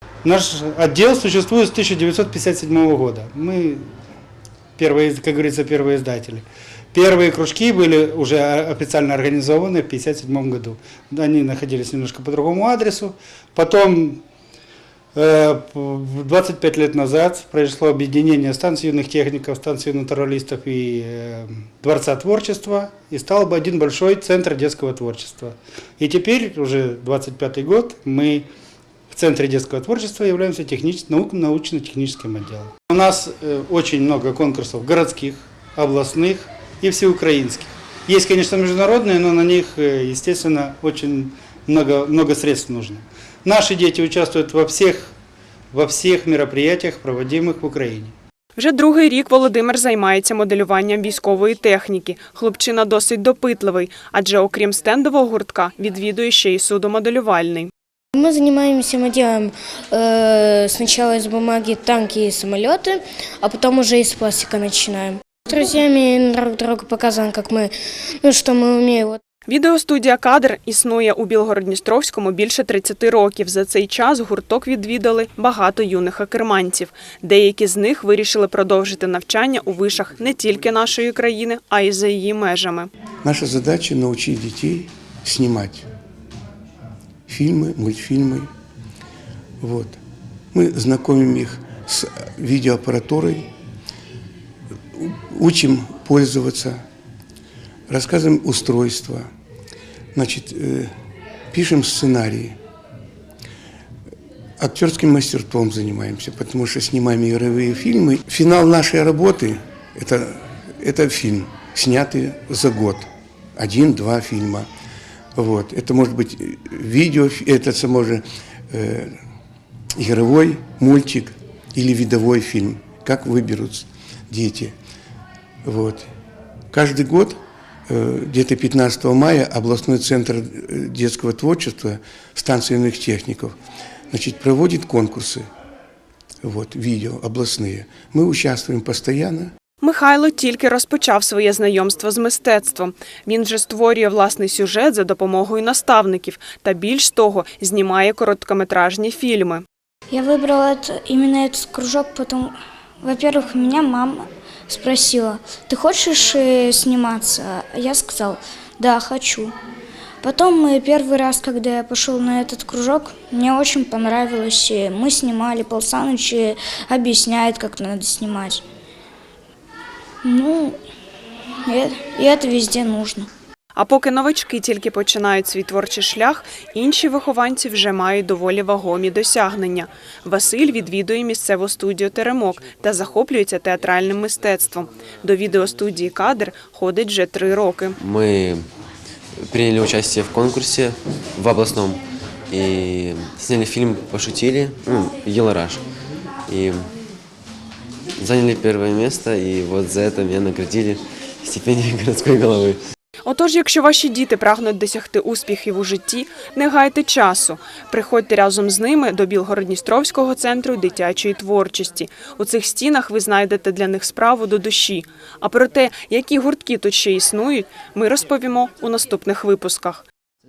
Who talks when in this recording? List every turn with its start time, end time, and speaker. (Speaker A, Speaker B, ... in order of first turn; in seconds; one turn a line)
Speaker A: 0.2-3.9
Speaker A: 4.8-14.2
Speaker A: 15.2-28.5
Speaker A: 29.1-45.1
Speaker A: 45.7-48.1
Speaker B: 48.6-57.7
Speaker C: 58.2-67.7
Speaker C: 68.2-69.2
Speaker B: 69.5-82.9
Speaker D: 83.2-85.9
Speaker D: 87.3-88.5
Speaker D: 89.6-90.0
Speaker D: 90.5-93.5
Speaker D: 95.0-96.8
Speaker D: 97.9-99.3
Speaker D: 100.2-100.9
Speaker D: 101.5-102.6
Speaker D: 104.6-114.7
Speaker D: 115.4-119.2
Speaker D: 120.0-124.7
Speaker D: 125.6-126.1
Speaker D: 126.7-133.6
Speaker D: 134.1-135.4
Speaker D: 136.4-139.5
Speaker B: 139.8-149.6
Speaker E: 150.1-159.6
Speaker E: 160.2-168.6
Speaker E: 170.2-170.8
Speaker E: 171.7-173.3
Speaker B: 173.8-188.0
Speaker F: 188.0-188.6
Speaker F: 189.5-195.8
Speaker F: 196.5-196.9
Speaker F: 198.2-202.8
Speaker B: 203.3-220.1